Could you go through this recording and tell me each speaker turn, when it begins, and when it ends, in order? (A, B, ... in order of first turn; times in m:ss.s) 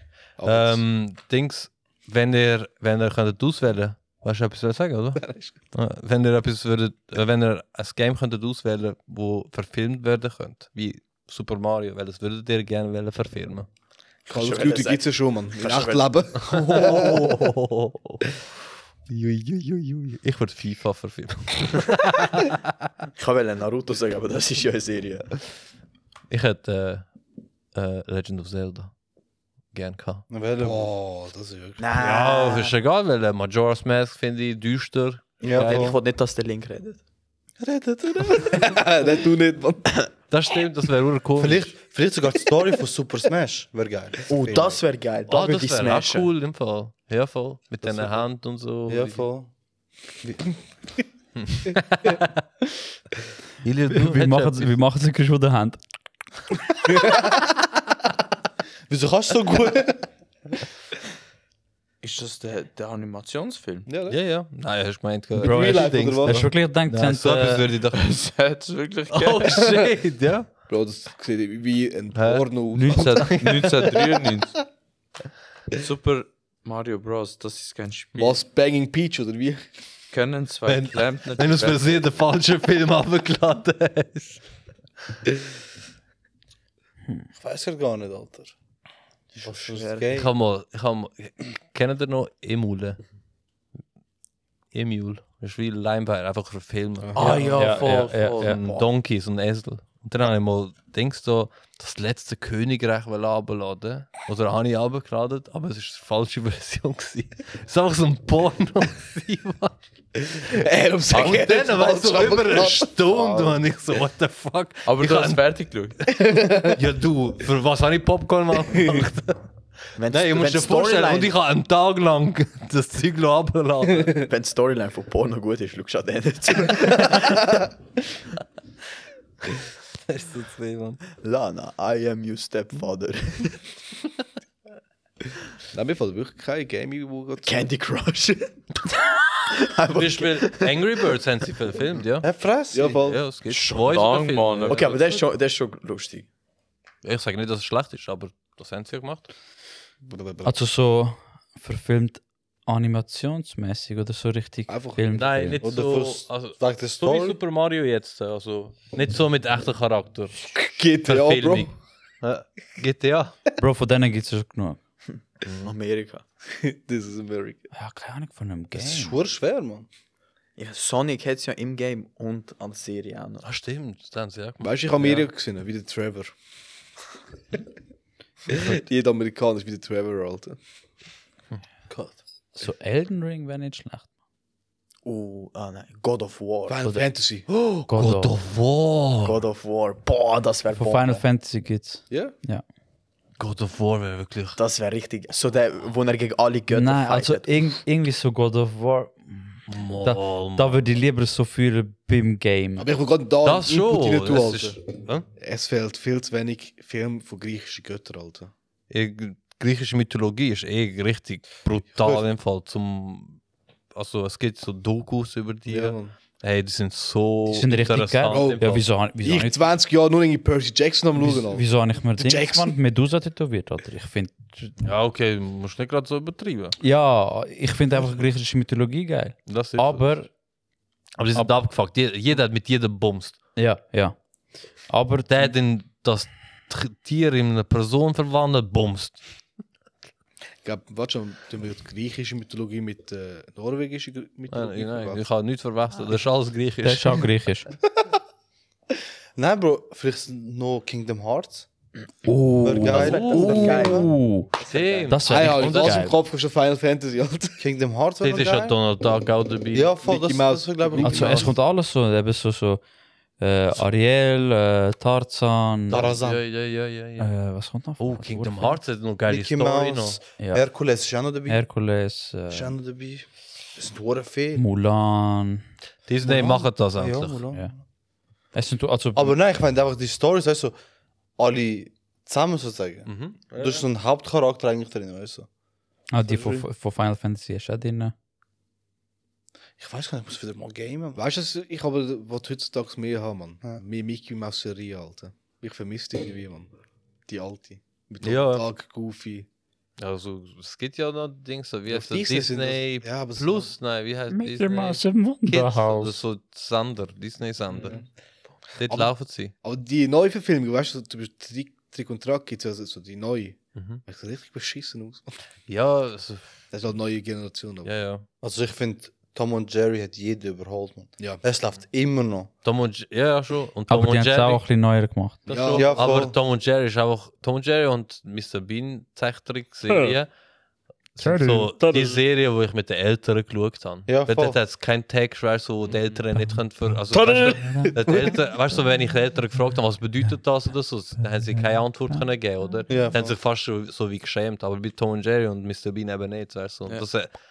0:00.4-0:00.8 A
0:00.4-0:13.7 B
0:05.2-0:05.6 A
0:14.3-0:17.2 A
0:14.3-0:16.1 C
0:16.5-0:18.2 B
0:19.1-0:22.6 B
0:23.2-0:25.2 C
0:26.3-0:27.0 B
0:27.7-0:28.9 B
0:29.7-0:30.2 B
0:30.3-0:30.9 D
0:30.6-0:31.8 A
0:31.8-0:32.7 C
0:32.0-0:35.9 B
0:35.4-0:36.0 D
0:35.5-0:37.0 C
0:37.6-0:38.7 D
0:38.3-0:39.9 A
0:40.3-0:41.7 B
0:41.4-0:44.8 D
0:44.3-0:46.3 C
0:45.3-0:49.2 B
0:47.9-0:48.2 D
0:48.9-0:49.5 D
0:50.2-0:50.5 D
0:51.4-0:52.3 B
0:53.6-0:54.7 B
0:53.9-0:55.8 E
0:58.9-1:00.0 D
1:02.0-1:03.9 F
1:03.9-1:04.2 A
1:04.1-1:08.0 B
1:05.4-1:06.5 A
1:05.4-1:07.6 E
1:07.9-1:09.8 F
1:09.1-1:10.5 B
1:10.7-1:13.4 A
1:12.1-1:14.0 B
1:12.7-1:14.6 F
1:15.8-1:18.4 F
1:18.2-1:19.6 A
1:20.1-1:22.0 F
1:20.7-1:24.4 B
1:27.3-1:28.5 D
1:29.3-1:30.3 D
1:29.5-1:30.1 F
1:30.1-1:33.0 B
1:34.7-1:49.8 B
1:37.0-1:37.4 A
1:37.1-1:38.8 F
1:37.2-1:38.6 E
1:37.2-1:37.6 C
1:50.5-1:53.6 A
1:51.1-1:51.5 F
1:51.1-1:55.6 B
1:54.8-1:56.0 F
1:56.1-1:56.8 A
1:56.6-1:59.4 B
1:58.7-1:59.0 A
2:00.0-2:01.4 C
2:00.0-2:04.2 B
2:04.1-2:07.5 C
2:10.1-2:11.0 B
2:11.2-2:13.6 C
2:15.7-2:17.6 A
2:17.4-2:18.5 C
2:19.5-2:20.8 C
2:19.9-2:22.3 B
2:22.2-2:23.0 D
2:22.7-2:23.2 A
2:23.0-2:25.2 B
2:23.4-2:24.9 F
2:24.6-2:26.2 C
2:27.0-2:29.3 B
2:30.0-2:30.5 A
2:30.4-2:35.6 E
2:34.7-2:35.3 A
2:35.1-2:40.5 B
2:35.6-2:37.4 D
2:40.4-2:41.7 A
2:41.0-2:41.7 B
2:42.2-2:43.4 B
2:43.6-2:44.8 E
2:45.4-2:45.7 B
2:45.5-2:46.2 C
2:46.5-2:47.7 A
2:47.7-2:49.1 E
2:48.7-2:49.9 D
2:50.6-2:53.5 C
2:53.4-2:55.3 B
2:54.6-2:56.3 A
2:58.5-3:00.6 A
3:01.9-3:02.2 D
3:02.5-3:04.1 E
3:05.0-3:06.8 C
3:06.7-3:07.8 A
3:07.8-3:08.4 E
3:08.0-3:09.4 B
3:09.2-3:11.2 C
3:10.7-3:12.6 E
3:13.4-3:14.6 B
3:14.6-3:17.5 C
3:16.7-3:22.9 E
3:19.7-3:20.8 B
3:22.8-3:24.8 A
3:23.4-3:25.2 B
3:25.4-3:28.5 A
3:28.9-3:33.4 B
3:32.0-3:32.2 A
3:33.9-3:38.8 B
3:35.7-3:36.1 A
3:37.5-3:39.6 E
3:38.3-3:42.7 A
3:41.2-3:44.8 E
3:44.8-3:46.8 B
3:46.8-3:50.3 E
3:49.5-3:50.1 B
3:51.2-3:53.4 B
3:53.6-3:54.2 E
3:54.9-3:55.5 E
3:55.3-3:59.2 B
4:00.6-4:05.2 A
4:04.5-4:07.2 B
4:06.8-4:07.7 E
4:09.4-4:11.7 D
4:12.2-4:14.5 E
4:12.6-4:14.1 D
4:12.8-4:15.2 C
4:13.0-4:13.7 B
4:14.7-4:16.1 B
4:15.1-4:16.2 E
4:15.2-4:17.6 A
4:17.6-4:18.8 D
4:18.2-4:19.9 B
4:19.7-4:21.5 D
4:20.0-4:21.5 A
4:21.0-4:22.8 E
4:23.4-4:26.1 E
4:25.9-4:26.4 D
4:25.9-4:27.3 B
4:27.2-4:28.8 E
4:28.0-4:30.2 B
4:29.3-4:31.6 D
4:30.4-4:30.6 E
4:31.5-4:32.7 E
4:32.5-4:34.6 D
4:34.6-4:35.6 E
4:36.1-4:37.4 B
4:36.2-4:37.8 D
4:38.5-4:39.4 E
4:39.1-4:40.7 D
4:41.4-4:45.5 D
4:43.0-4:43.8 B
4:46.1-4:48.1 E
4:46.2-4:46.6 D
4:49.8-4:51.2 D
4:51.2-4:56.7 A
4:57.3-4:59.5 A
4:58.2-4:58.6 B
5:00.0-5:08.0 B
5:01.9-5:03.7 A
5:04.3-5:06.2 E
5:07.8-5:08.0 A
5:08.8-5:09.5 B
5:09.6-5:15.3 A
5:13.7-5:14.0 B
5:15.7-5:16.5 B
5:16.7-5:17.9 A
5:17.8-5:18.2 B
5:18.4-5:22.5 D
5:22.6-5:24.6 B
5:23.9-5:25.5 E
5:25.5-5:30.3 B
5:25.5-5:25.9 A
5:25.7-5:26.4 D
5:31.2-5:47.3 B
5:31.2-5:32.1 E
5:34.1-5:34.6 D
5:36.4-5:37.9 E
5:41.5-5:42.2 E
5:42.9-5:43.4 D